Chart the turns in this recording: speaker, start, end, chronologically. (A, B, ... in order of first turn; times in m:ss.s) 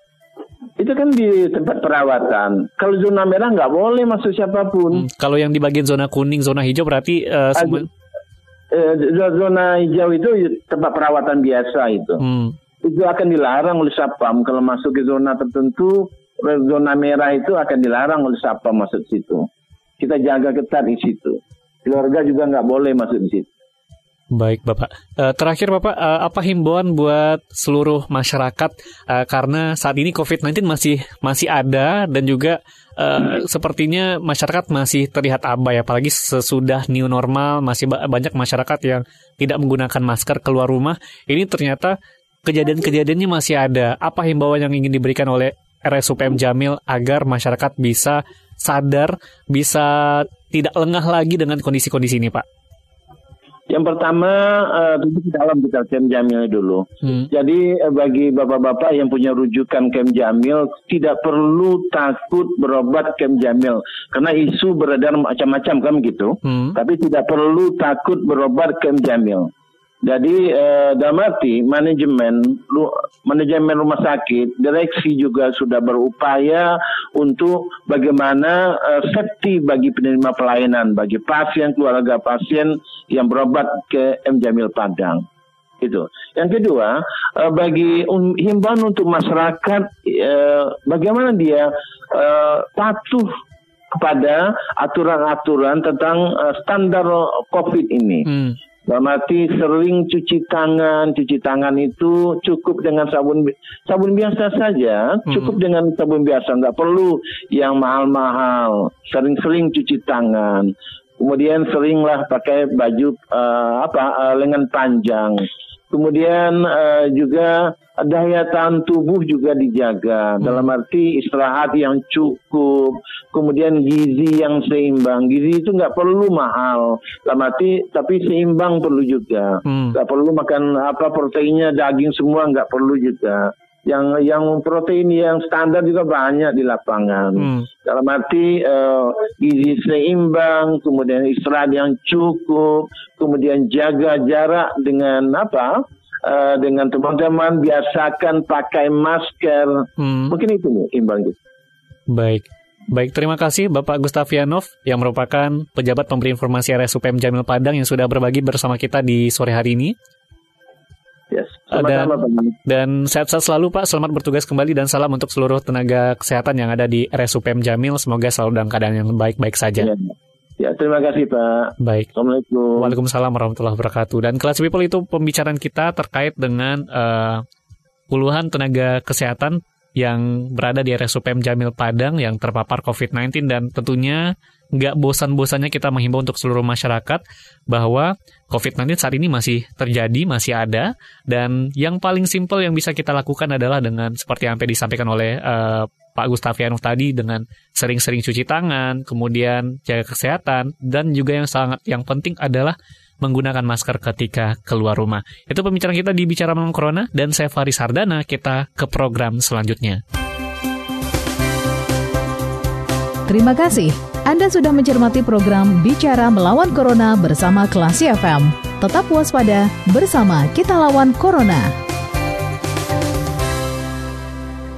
0:00.8-0:05.1 A
0:05.0-0:07.9 B
0:07.6-0:07.8 A
0:08.7-0:12.2 A
0:12.2-0:12.6 B
0:12.8-0:23.5 A
0:24.3-0:52.4 B
0:53.7-1:09.5 A
1:06.5-1:06.8 B
1:10.0-1:25.2 A
1:25.8-1:33.3 A
1:33.9-1:38.3 A
1:38.3-1:38.6 B
1:38.9-2:31.4 A
1:45.3-1:45.6 B
2:00.4-2:00.7 B
2:09.7-2:10.0 B
2:17.4-2:17.6 B
2:30.0-2:30.3 B
2:32.1-2:39.9 B
2:41.3-2:42.6 A
2:41.7-2:49.9 B
2:49.8-2:53.0 A
2:51.8-2:52.1 B
2:52.8-2:57.4 B
2:58.1-3:30.0 B
3:33.3-3:41.8 C